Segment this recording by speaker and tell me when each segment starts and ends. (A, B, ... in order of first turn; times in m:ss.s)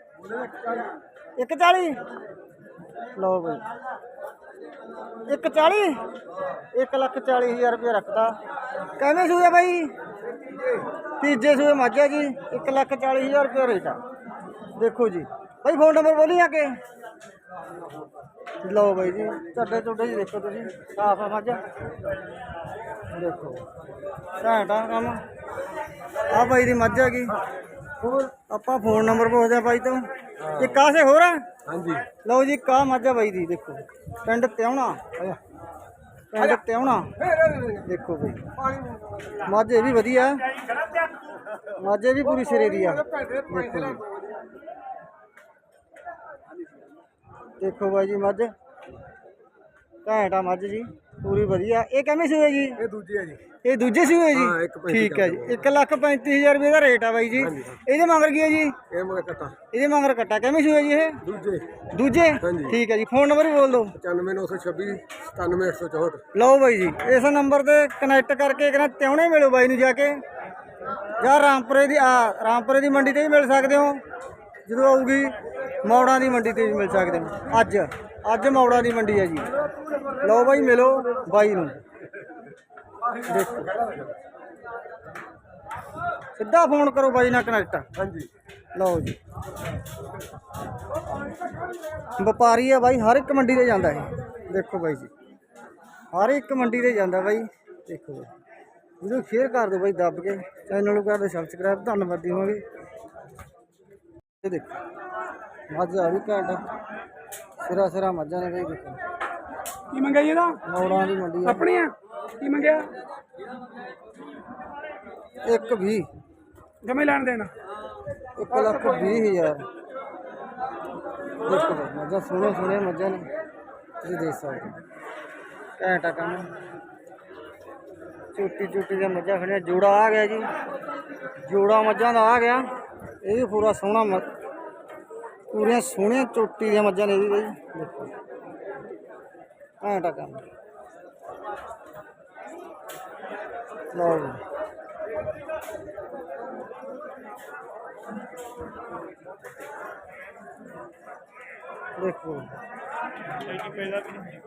0:00.2-0:01.0 A
0:01.4-0:02.0 B
0:03.1-0:03.6 B
0:05.3-0:06.0 B
0:06.7-0:08.4 B
0:09.0-0:09.9 B
0:10.5-0:10.8 A
0:11.2-0:14.0 B
0:14.8-0:16.8 B
0:18.6-0:21.6 B
0:23.1-0:23.6 B
0:24.4-0:25.2 B
0:26.3-0:27.4 B
0:28.0-0:28.3 A
0:28.5-0:31.4 B
0:30.5-0:30.8 A
0:31.7-0:32.1 A
0:32.2-0:35.0 B
0:36.3-0:37.2 B
0:37.2-0:37.9 A
0:37.8-0:38.5 B
0:38.6-0:39.3 A
0:39.4-0:40.4 B
0:41.8-0:44.0 B
0:42.3-0:44.4 A
0:47.6-0:48.5 B
0:50.0-0:52.8 B
0:52.8-0:53.4 A
0:53.6-0:58.8 B
0:54.3-0:55.6 A
0:58.9-0:59.5 A
0:59.7-1:01.2 B
1:01.2-1:01.6 A
1:01.9-1:04.0 B
1:02.4-1:02.8 A
1:04.0-1:06.2 A
1:06.3-1:10.2 B
1:11.2-1:14.0 B
1:14.6-1:19.5 B
1:20.2-1:21.8 B
1:23.2-1:24.1 A
1:23.2-1:23.6 B
1:26.4-1:27.9 B
1:28.0-1:28.3 A
1:28.8-1:29.2 B
1:32.2-1:35.1 B
1:36.1-1:38.3 B
1:39.0-1:42.6 B
1:44.4-1:44.8 B
1:45.7-1:46.6 B
1:47.6-1:49.0 B
1:49.9-1:50.6 C
1:50.6-1:51.6 B
1:51.4-1:52.9 C
1:55.4-1:56.1 B
1:56.8-1:57.5 C
1:58.4-1:59.6 B
1:58.6-1:59.2 A
2:01.4-2:03.3 B
2:04.0-2:04.8 B
2:05.8-2:06.5 B
2:08.3-2:10.5 B
2:11.4-2:12.6 B
2:13.2-2:14.3 B
2:15.5-2:18.1 B
2:19.8-2:20.4 B
2:23.9-2:24.4 B
2:32.0-2:32.5 B